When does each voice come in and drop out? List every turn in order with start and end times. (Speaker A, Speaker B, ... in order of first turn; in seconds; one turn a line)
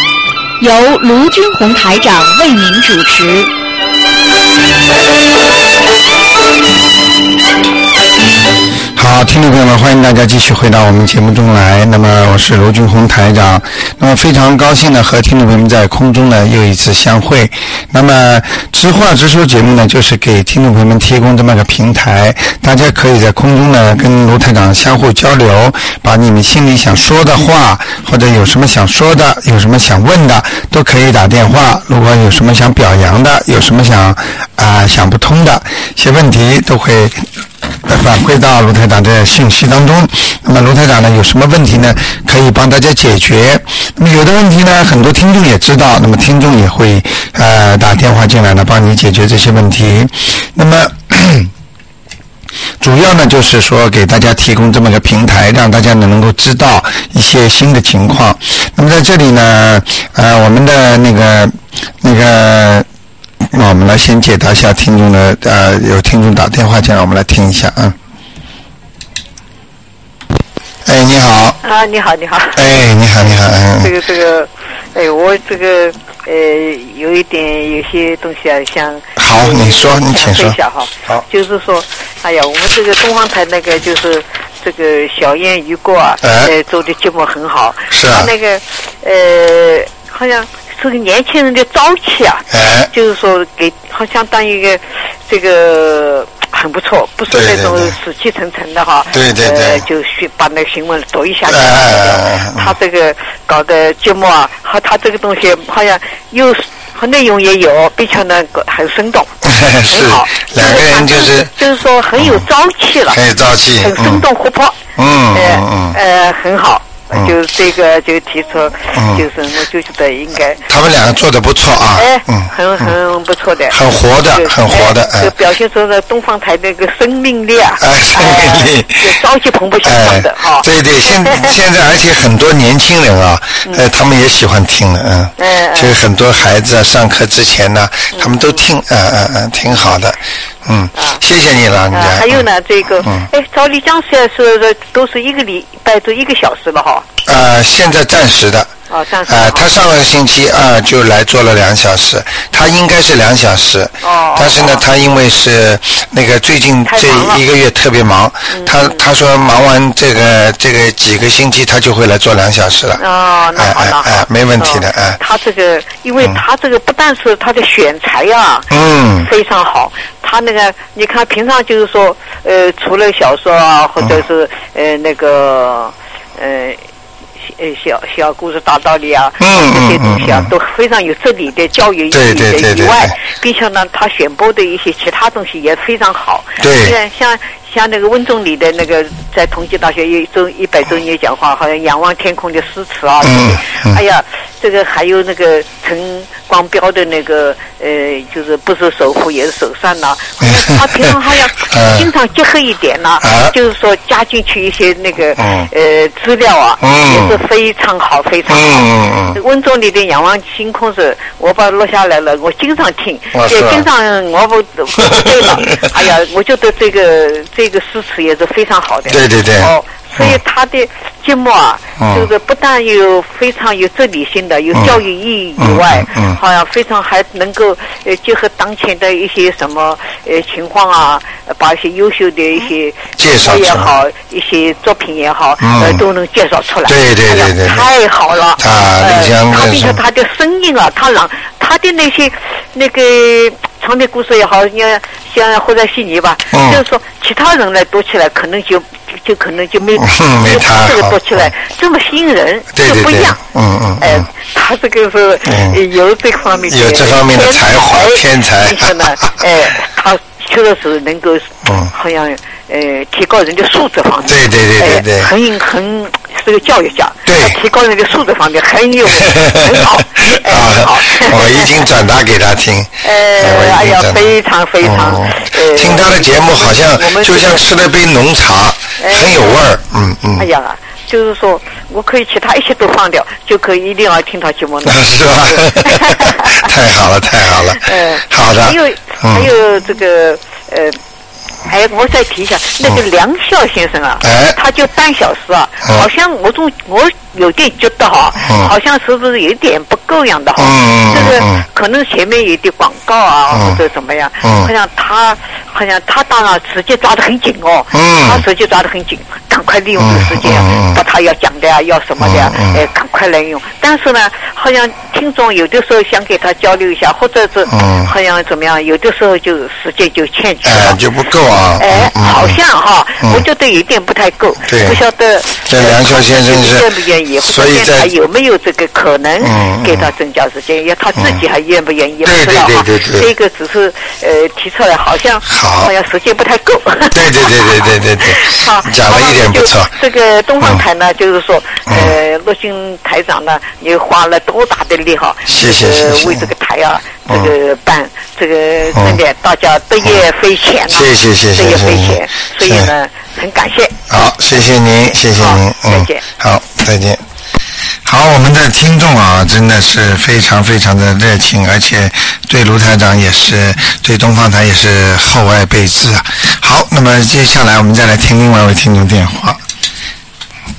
Speaker A: 0.6-3.5
Speaker B: 8.9-37.2
Speaker B: 37.9-51.5
Speaker B: 52.8-62.9
Speaker B: 63.5-68.0
Speaker B: 70.8-71.6
Speaker C: 71.6-72.6
Speaker B: 72.5-73.9
Speaker C: 73.8-109.3
Speaker B: 79.2-81.2
Speaker B: 86.2-86.5
Speaker B: 87.9-88.3
Speaker B: 92.5-92.9
Speaker B: 97.3-97.9
Speaker B: 99.1-99.8
Speaker B: 101.5-102.7
Speaker B: 109.4-111.5
Speaker C: 109.9-113.2
Speaker B: 112.2-112.5
Speaker B: 113.1-114.2
Speaker C: 113.8-114.8
Speaker B: 115.0-116.0
Speaker C: 115.3-120.6
Speaker B: 118.9-119.2
Speaker B: 120.7-122.9
Speaker C: 122.0-123.8
Speaker B: 123.7-125.3
Speaker C: 124.3-131.5
Speaker B: 127.8-129.2
Speaker B: 129.8-142.4
Speaker C: 135.4-135.9
Speaker C: 138.1-138.6
Speaker C: 140.9-141.2
Speaker C: 141.9-147.1
Speaker B: 143.0-143.3
Speaker B: 147.2-148.7
Speaker C: 148.9-149.7
Speaker B: 149.2-163.0
Speaker C: 154.0-154.8
Speaker C: 156.9-157.4
Speaker C: 158.5-159.0
Speaker C: 163.0-168.7
Speaker B: 163.6-165.2
Speaker B: 168.7-169.3
Speaker C: 169.2-176.8
Speaker C: 177.4-253.4
Speaker B: 179.4-180.5
Speaker B: 182.1-183.2
Speaker B: 186.6-186.9
Speaker B: 193.2-194.0
Speaker B: 200.4-202.1
Speaker B: 203.2-203.5
Speaker B: 205.4-205.7
Speaker B: 206.8-207.4
Speaker B: 208.5-209.4
Speaker B: 213.3-213.9
Speaker B: 215.0-215.8
Speaker B: 219.1-220.4
Speaker B: 222.0-222.3
Speaker B: 224.7-225.0
Speaker B: 225.6-226.4
Speaker B: 233.2-233.9
Speaker B: 235.6-236.0
Speaker B: 236.8-237.9
Speaker B: 238.6-240.0
Speaker B: 246.5-246.8
Speaker B: 250.0-251.5
Speaker B: 252.7-254.3
Speaker C: 254.0-271.7
Speaker B: 255.4-255.8
Speaker B: 256.6-259.3
Speaker B: 261.6-261.9
Speaker B: 264.2-265.3
Speaker B: 267.2-267.6
Speaker B: 269.1-274.3
Speaker C: 273.0-277.6
Speaker B: 274.8-280.5
Speaker C: 279.0-279.6
Speaker C: 280.4-286.6
Speaker B: 284.8-289.5
Speaker C: 287.8-291.0
Speaker C: 291.6-321.0
Speaker B: 294.2-294.6
Speaker B: 298.4-298.7
Speaker B: 300.6-301.6
Speaker B: 303.5-303.8
Speaker B: 304.4-304.7
Speaker B: 307.9-308.4
Speaker B: 310.0-311.0
Speaker B: 312.2-312.8
Speaker B: 317.7-318.1
Speaker B: 320.6-322.6
Speaker C: 321.8-353.9
Speaker B: 324.6-325.0
Speaker B: 325.6-326.9
Speaker B: 327.4-328.1
Speaker B: 329.4-330.1
Speaker B: 332.2-333.3
Speaker B: 335.4-335.9
Speaker B: 337.1-339.9
Speaker B: 341.9-342.1
Speaker B: 345.5-346.5
Speaker B: 348.9-349.2
Speaker B: 350.9-352.9
Speaker B: 354.1-357.2
Speaker C: 355.3-356.2
Speaker B: 358.0-369.6